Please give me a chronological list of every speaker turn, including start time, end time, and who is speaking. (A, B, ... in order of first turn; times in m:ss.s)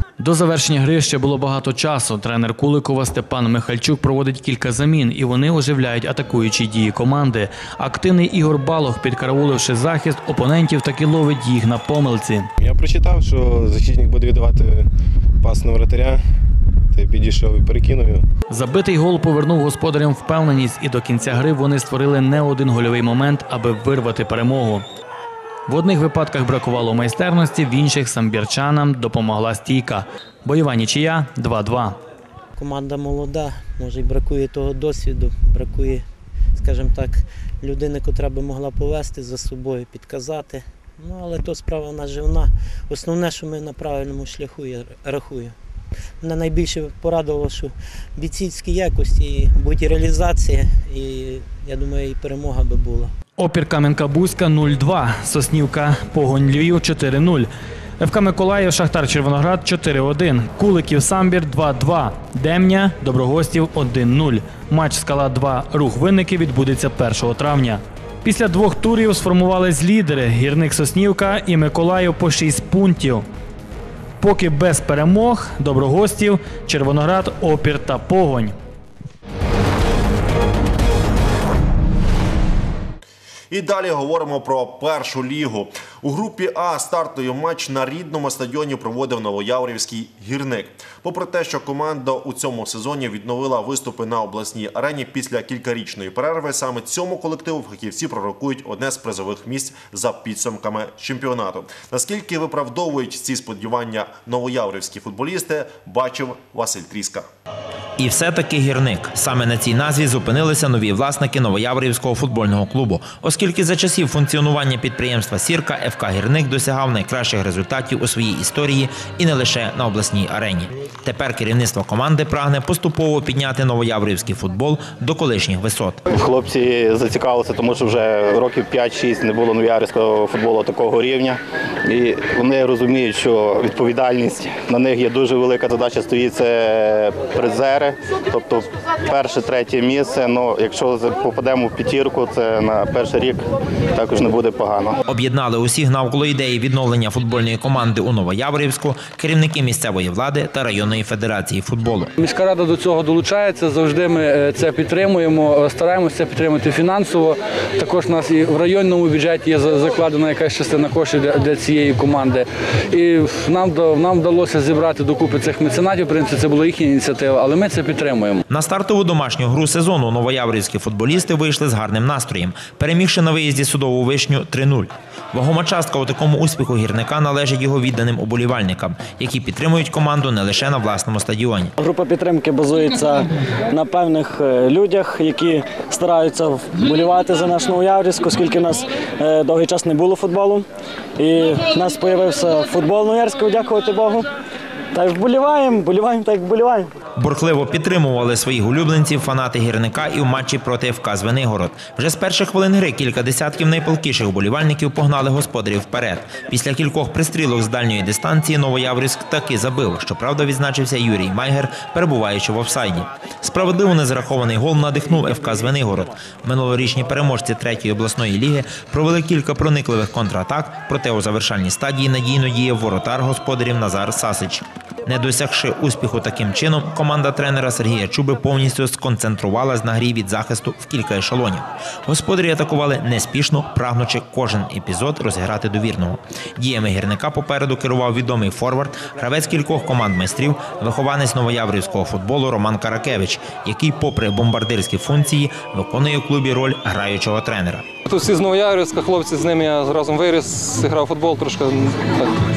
0:00.2-0:12.5 A
0:12.6-0:14.9 B
0:15.4-0:16.2 B
0:16.9-0:18.2 B
0:18.5-0:24.9 A
0:25.7-0:32.0 A
0:32.6-0:36.0 C
0:36.6-0:45.6 C
0:46.2-0:53.1 C
0:53.4-1:13.3 A
1:14.2-1:18.6 A
1:23.5-1:47.3 D
1:48.0-2:06.0 E
2:06.1-2:23.4 F
2:24.0-2:25.0 F
2:25.1-2:32.1 E
2:32.2-2:48.4 G
2:48.5-3:01.7 E
3:01.8-3:10.6 H
3:11.2-3:14.3 H
3:14.9-3:16.9 H
3:17.2-4:07.8 E
4:08.1-4:12.3 I